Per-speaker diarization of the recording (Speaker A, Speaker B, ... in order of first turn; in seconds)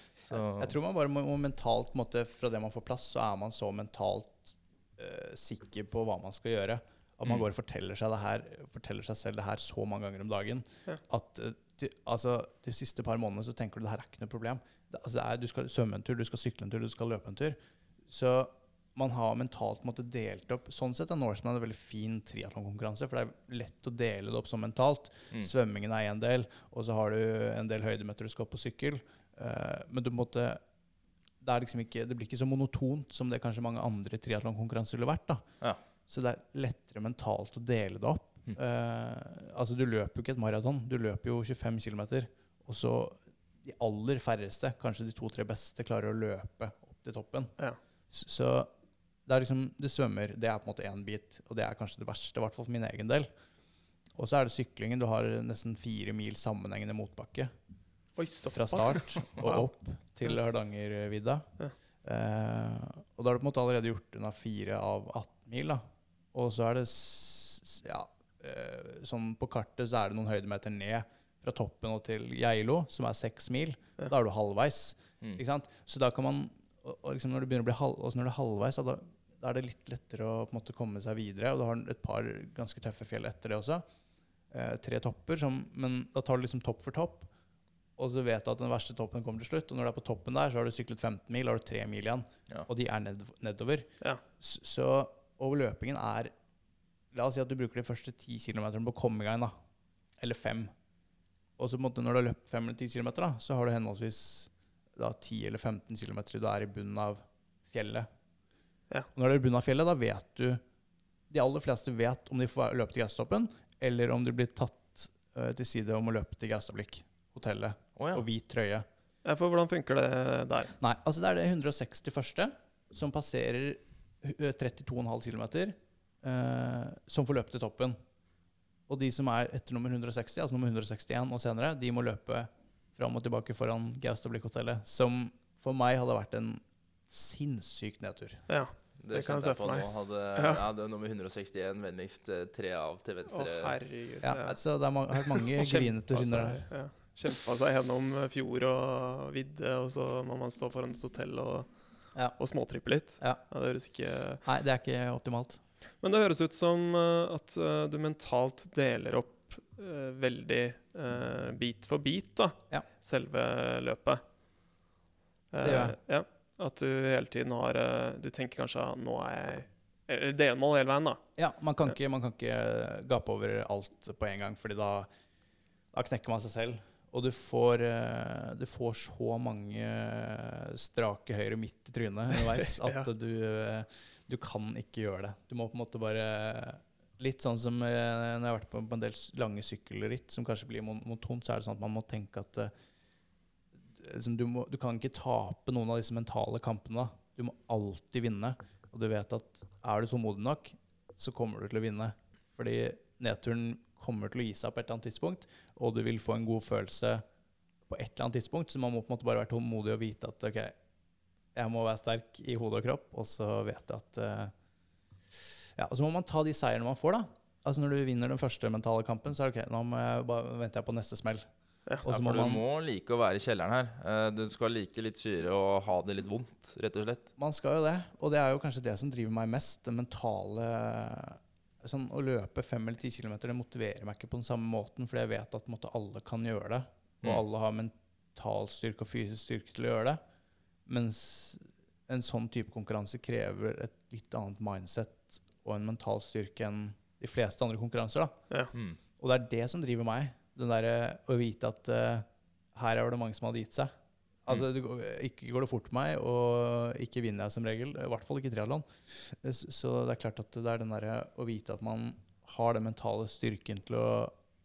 Speaker A: 0.2-0.7, 118.0-118.2, 139.0-143.8, 222.1-227.2, 248.7-249.0
Speaker B: 0.2-30.6, 31.4-35.4, 36.1-47.5, 48.1-48.7, 49.2-53.3, 54.1-57.5, 58.5-61.5, 62.0-65.8, 66.3-83.8, 84.5-87.3, 88.0-96.3, 97.1-99.5, 100.2-100.7, 101.6-108.1, 109.1-110.6, 111.3-118.9, 120.8-128.0, 128.9-138.4, 144.2-146.7, 154.4-155.6, 165.6-165.9, 171.4-175.1, 175.9-192.7, 193.9-207.2, 207.9-210.7, 211.5-214.5, 215.4-221.5, 222.0-222.6, 227.4-240.2, 240.9-248.4, 249.2-253.9, 254.4-264.3
Speaker C: 58.2-59.7, 119.2-120.7, 138.5-140.6, 143.3-144.6, 145.1-151.7, 152.3-154.4, 156.0-164.2, 165.5-171.2, 182.7-183.1